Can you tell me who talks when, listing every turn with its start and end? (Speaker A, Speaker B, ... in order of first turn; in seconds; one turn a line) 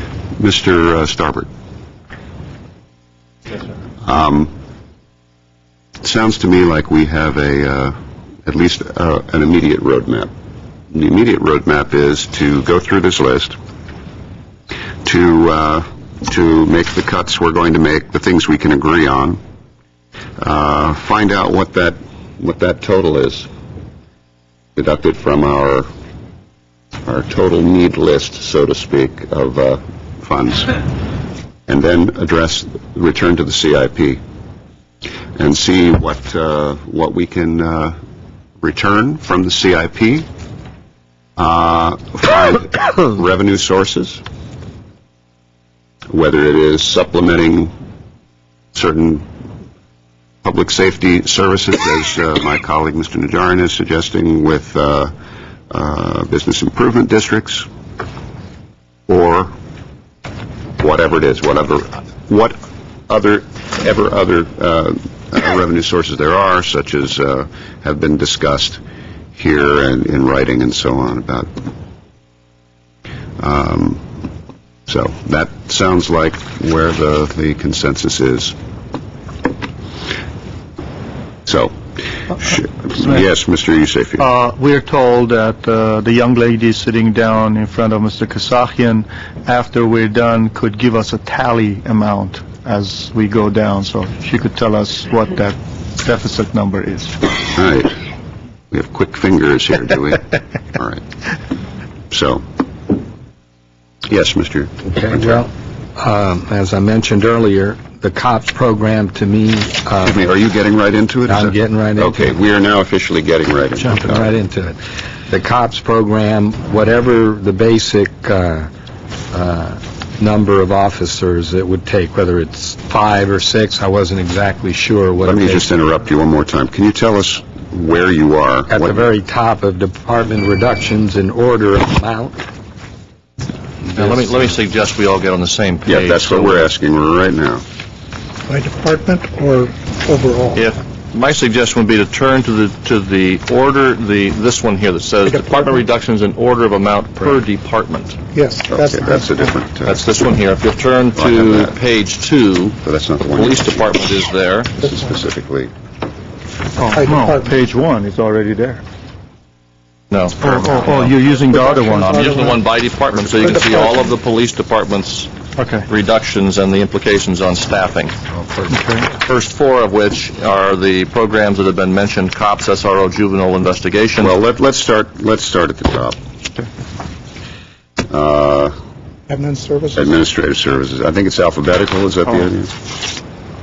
Speaker A: 0.4-1.5
Speaker A: 4.0-4.5
Speaker A: 6.0-8.0
Speaker A: 8.5-10.3
Speaker A: 10.9-13.6
Speaker A: 15.1-19.4
Speaker A: 20.4-23.5
Speaker A: 24.8-25.9
Speaker A: 27.1-30.8
Speaker A: 31.7-34.2
Speaker A: 35.4-38.0
Speaker A: 38.6-40.3
Speaker A: 41.4-44.2
Speaker A: 46.1-47.7
Speaker A: 48.8-49.3
Speaker A: 50.4-55.1
Speaker A: 55.7-57.7
Speaker A: 59.1-59.5
Speaker A: 60.8-68.8
Speaker A: 69.3-71.5
Speaker A: 73.4-74.0
Speaker A: 74.9-78.5
Speaker A: 81.5-81.8
Speaker A: 82.3-84.3
Speaker B: 84.2-97.1
Speaker A: 97.5-98.0
Speaker A: 98.7-101.0
Speaker A: 102.1-102.4
Speaker A: 104.1-105.4
Speaker C: 104.9-110.2
Speaker A: 110.0-114.3
Speaker C: 111.3-112.3
Speaker C: 113.8-114.8
Speaker C: 115.3-118.7
Speaker C: 119.3-125.7
Speaker A: 125.2-129.1
Speaker C: 128.7-132.4
Speaker C: 133.9-134.4
Speaker D: 133.9-136.7
Speaker A: 135.9-137.6
Speaker E: 138.5-140.5
Speaker D: 140.6-148.2
Speaker E: 148.3-149.0
Speaker A: 148.7-150.0
Speaker D: 149.8-152.8
Speaker A: 151.2-151.8
Speaker A: 152.8-154.0
Speaker D: 153.3-154.7
Speaker A: 154.8-155.7
Speaker B: 156.8-158.8
Speaker D: 160.1-168.2
Speaker B: 160.6-162.0
Speaker C: 168.3-168.9
Speaker B: 168.7-169.0
Speaker D: 169.2-174.3
Speaker A: 174.2-176.2
Speaker A: 178.1-178.7
Speaker E: 179.3-179.9
Speaker A: 179.9-182.8